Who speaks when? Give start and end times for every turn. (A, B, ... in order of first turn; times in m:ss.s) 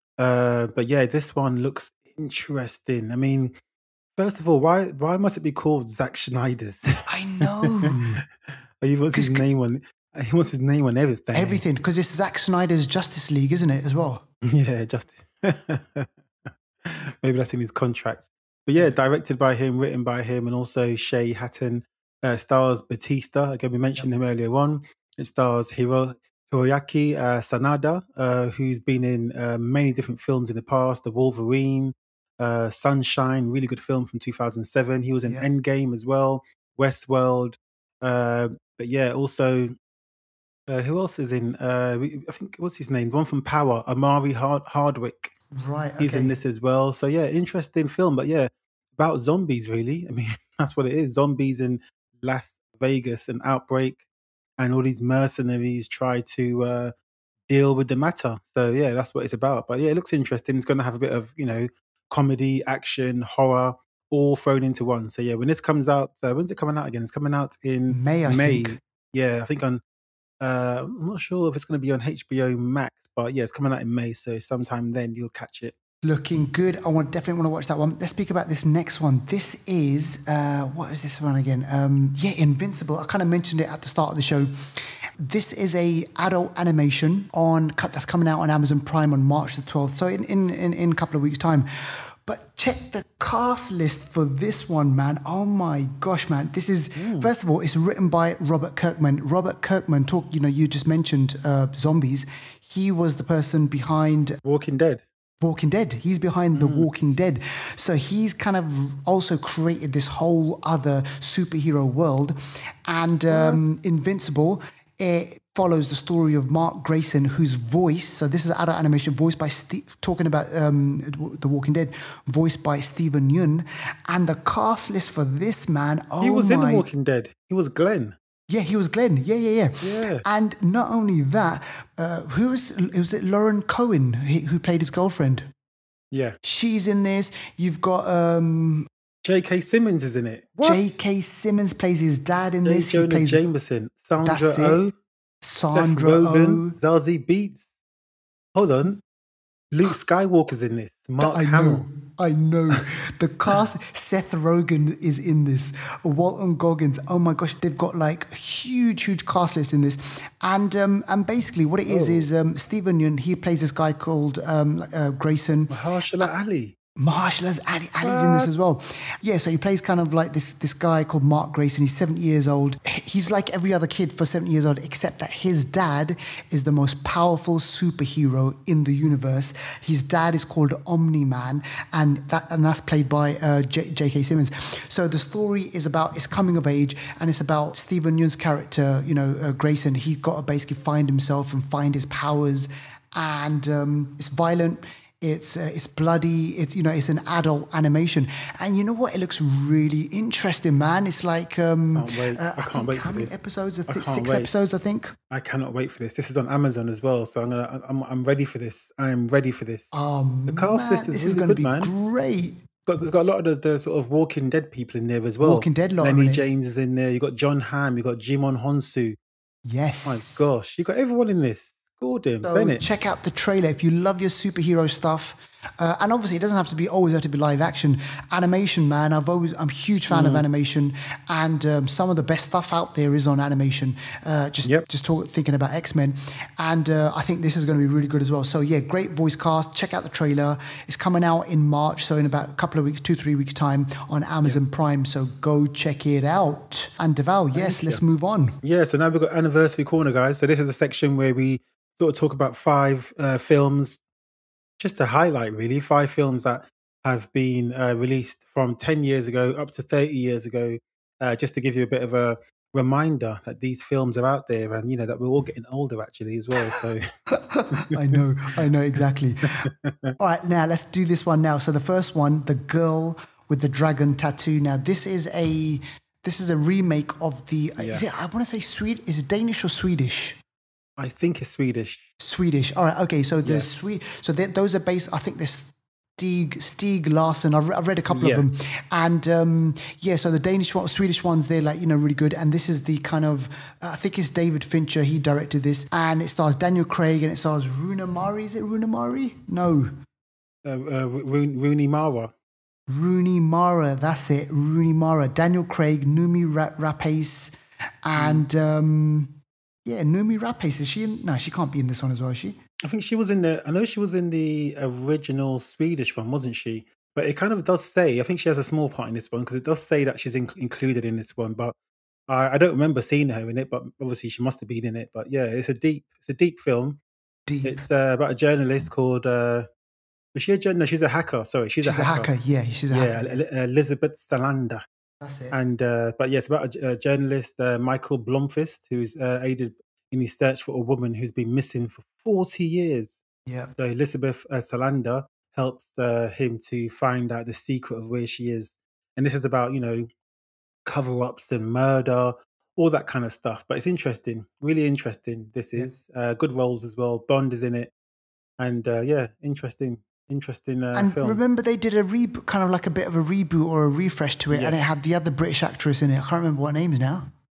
0:00.2-0:03.5 A
0:04.2-0:06.9 A
0:07.1-0:08.2 B
0:07.4-0:07.9 A
0:08.8-0:11.6 A
0:09.1-0:09.5 B
0:11.3-0:14.2 B
0:14.5-0:16.1 A
0:16.8-0:39.7 A
0:40.7-0:45.3 A
0:45.5-0:46.4 B
0:46.0-0:54.0 A
0:54.6-0:56.9 A
0:57.5-1:09.8 A
1:07.9-1:08.8 B
1:10.4-1:15.7 A
1:16.0-1:24.5 B
1:25.2-1:44.4 B
1:37.0-1:37.3 A
1:44.4-1:45.0 A
1:45.4-2:06.8 B
1:46.5-1:46.9 A
1:53.3-1:53.6 A
2:06.2-2:08.2 A
2:08.5-2:15.5 B
2:09.8-2:10.2 A
2:16.1-2:16.4 A
2:16.4-2:18.9 B
2:19.2-2:20.9 A
2:20.6-2:23.4 B
2:22.6-2:24.9 A
2:24.2-2:24.8 B
2:25.4-2:26.8 B
2:25.7-2:27.7 A
2:28.5-2:29.0 A
2:29.7-2:31.8 A
2:31.2-2:46.3 B
2:41.9-2:42.2 A
2:45.7-2:46.7 A
2:47.0-3:25.1 B
2:48.0-2:48.5 A
3:21.9-3:24.5 A
3:25.3-3:29.9 A
3:29.9-3:32.6 B
3:30.5-3:31.9 A
3:32.8-3:39.2 A
3:35.4-3:36.4 B
3:39.6-3:40.5 B
3:40.0-3:42.8 A
3:42.4-4:08.6 B
3:50.1-3:50.4 A
4:07.5-4:08.0 A
4:08.6-4:14.0 A
4:14.8-4:27.0 A
4:27.4-4:29.6 B
4:27.7-4:28.2 A
4:29.5-4:30.1 A
4:30.2-4:40.4 B
4:37.8-4:38.0 A
4:41.0-4:42.0 A
4:42.2-4:59.9 B
4:48.1-4:48.4 A
5:00.6-5:02.3 A
5:02.9-5:12.6 B
5:08.1-5:08.4 A
5:12.8-5:21.8 A
5:22.3-5:27.0 A
5:27.5-5:27.8 B
5:27.6-5:29.7 A
5:30.3-5:32.3 A
5:31.8-5:33.4 B
5:32.9-5:34.8 A
5:35.2-5:35.6 B
5:35.5-5:43.2 A
5:43.4-5:43.7 B
5:43.8-5:50.1 A
5:50.8-5:57.9 A
5:58.6-6:01.4 A
6:00.9-6:07.3 B
6:04.5-6:04.8 A